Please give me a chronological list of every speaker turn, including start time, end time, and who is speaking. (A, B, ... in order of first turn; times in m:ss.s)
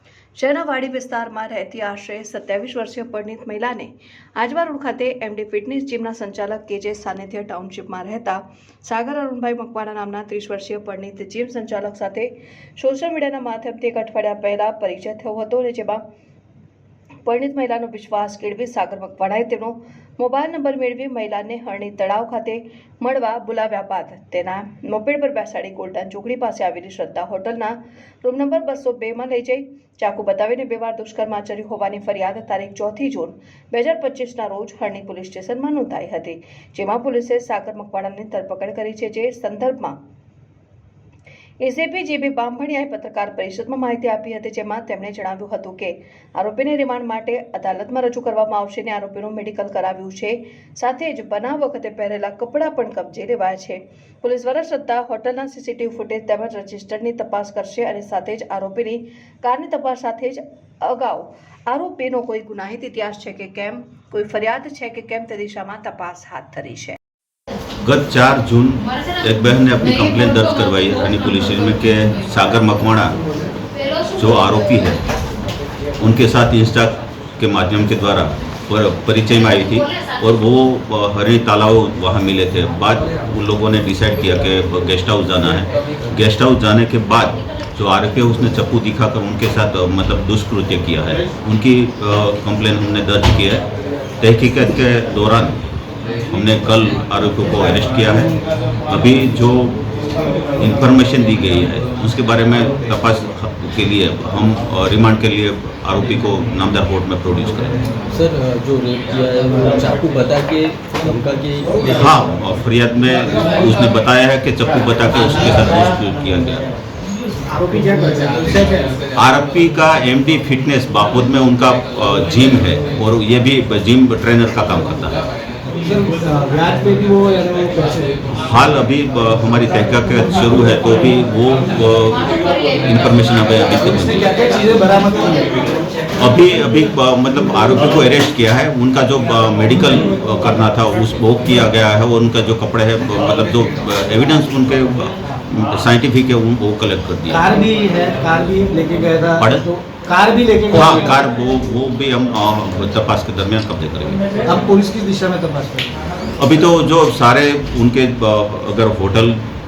0:00.4-0:16.0 A
0:17.2-0:40.0 A
0:41.6-1:07.0 A
1:07.8-1:13.2 B
1:14.1-1:15.0 B
1:16.0-1:33.6 B
1:34.2-1:35.6 B
1:36.3-1:39.8 B
1:40.6-1:47.8 B
1:48.1-1:52.1 C
1:51.8-1:56.7 B
1:57.5-1:58.9 D
1:59.1-2:05.2 B
2:05.7-2:08.3 D
2:08.3-2:14.2 B
2:13.8-2:15.6 D
2:16.2-2:27.5 B
2:27.3-2:31.2 D
2:29.4-2:29.6 B
2:30.7-2:34.2 B
2:34.4-2:35.9 D
2:36.4-2:39.4 B